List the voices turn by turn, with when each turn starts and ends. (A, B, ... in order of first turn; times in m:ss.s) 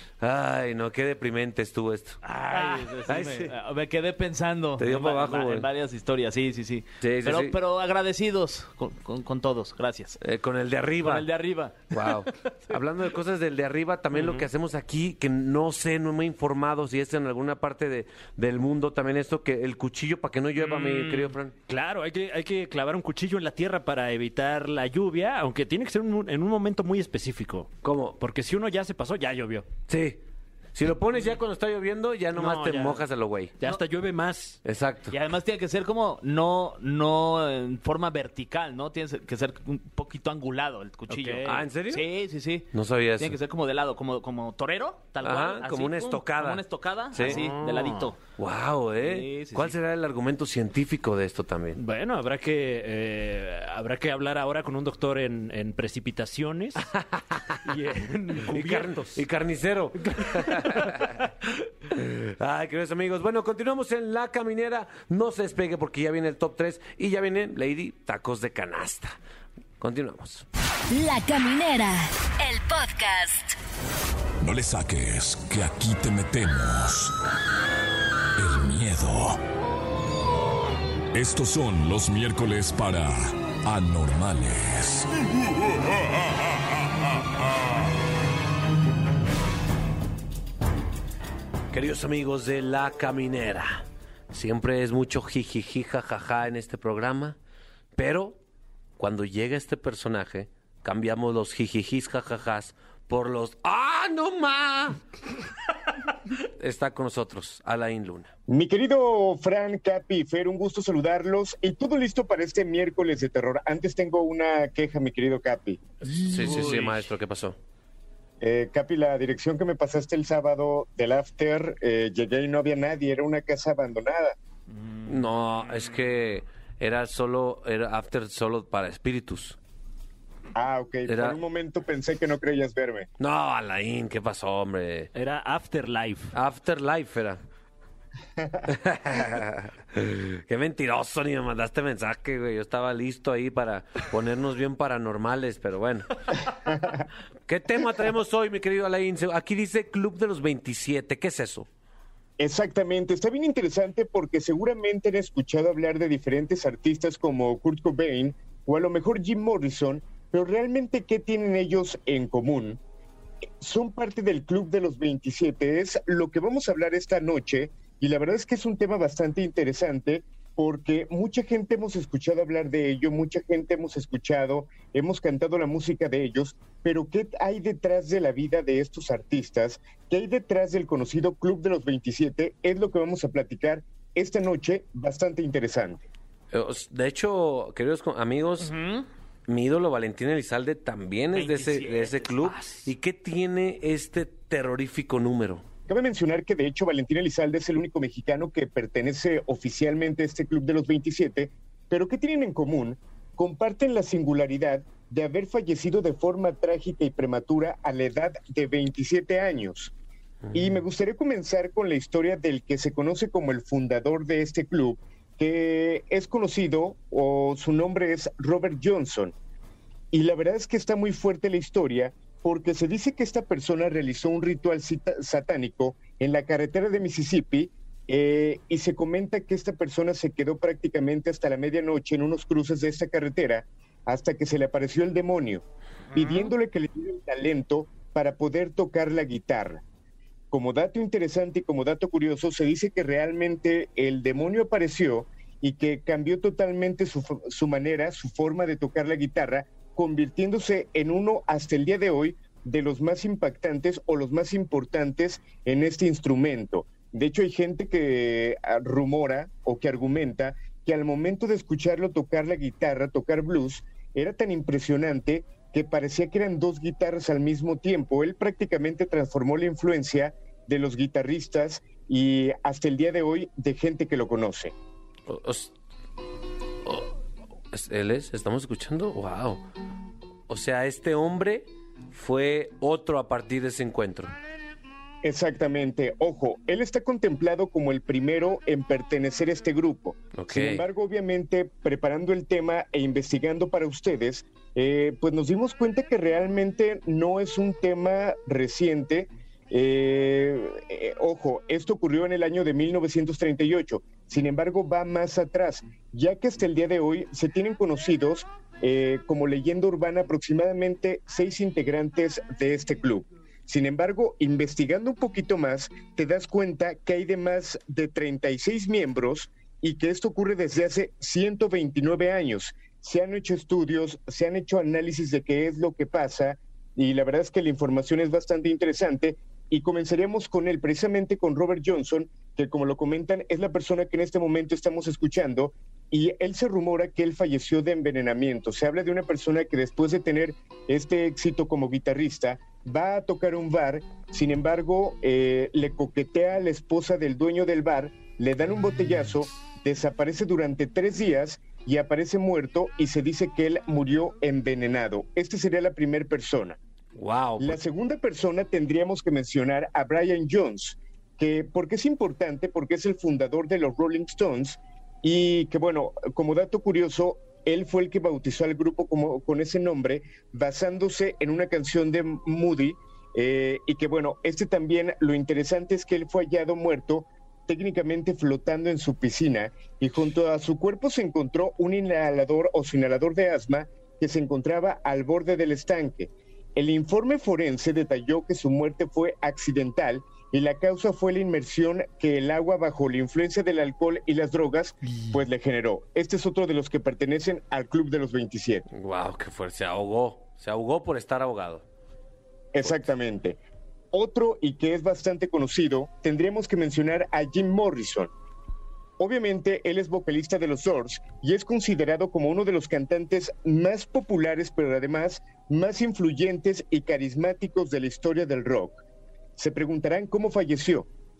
0:00.2-0:02.2 A
0:02.2-0:10.2 B
0:02.5-0:02.8 C
0:03.0-0:03.5 A
0:04.8-0:05.7 A
0:07.0-0:07.6 A
0:10.2-0:11.3 A
0:11.0-0:12.1 B
0:11.9-0:21.5 A
0:14.1-0:14.4 C
0:20.6-0:21.3 B
0:21.7-0:29.7 C
0:27.8-0:28.2 A
0:29.9-0:30.2 A
0:30.7-0:33.5 A
0:32.3-0:33.0 C
0:33.6-0:34.6 C
0:34.6-0:35.1 A
0:35.1-0:48.2 B
0:41.1-0:41.6 C
0:41.4-0:42.1 A
0:42.7-0:43.4 A
0:45.2-0:47.4 A
0:47.2-0:48.1 C
0:48.4-0:51.8 A
0:49.0-0:49.8 B
0:51.7-0:56.9 C
0:56.9-0:57.6 A
0:57.6-0:59.2 C
0:58.5-1:01.2 A
1:00.0-1:01.2 C
1:01.9-1:09.2 A
1:09.8-1:10.4 A
1:10.9-1:13.6 D
1:14.4-1:17.1 E
1:18.4-1:19.4 E
1:21.1-1:25.1 E
1:31.7-1:37.4 A
1:38.0-1:38.4 A
1:39.0-1:45.0 A
1:46.4-1:48.3 A
1:48.5-1:55.8 F
1:56.2-1:57.6 A
1:56.3-1:56.8 C
1:56.4-1:56.9 B
1:58.4-2:04.4 F
2:04.8-2:05.3 B
2:05.0-2:09.6 A
2:10.5-2:13.1 F
2:11.1-2:11.4 A
2:13.2-2:15.1 A
2:15.1-2:16.3 C
2:16.3-2:17.4 A
2:18.7-2:26.2 A
2:26.6-2:27.0 F
2:27.5-2:31.7 A
2:32.4-2:42.8 F
2:43.6-3:06.0 F
3:06.5-3:08.7 A
3:08.6-3:09.0 B
3:09.5-3:15.6 A
3:11.3-3:12.6 B
3:15.9-3:29.9 F
3:30.5-3:39.3 F
3:40.1-3:59.8 F
4:00.5-4:34.7 F
4:35.3-4:35.7 A
4:37.7-4:39.6 A
4:40.5-4:44.3 A
4:45.2-5:56.8 F
4:50.3-4:50.8 A
5:57.2-5:57.8 A
5:57.6-6:38.9 F
6:38.9-6:41.8 A
6:42.7-6:43.6 F
6:44.1-6:48.3 F
6:49.2-6:59.0 F
6:59.6-7:01.1 F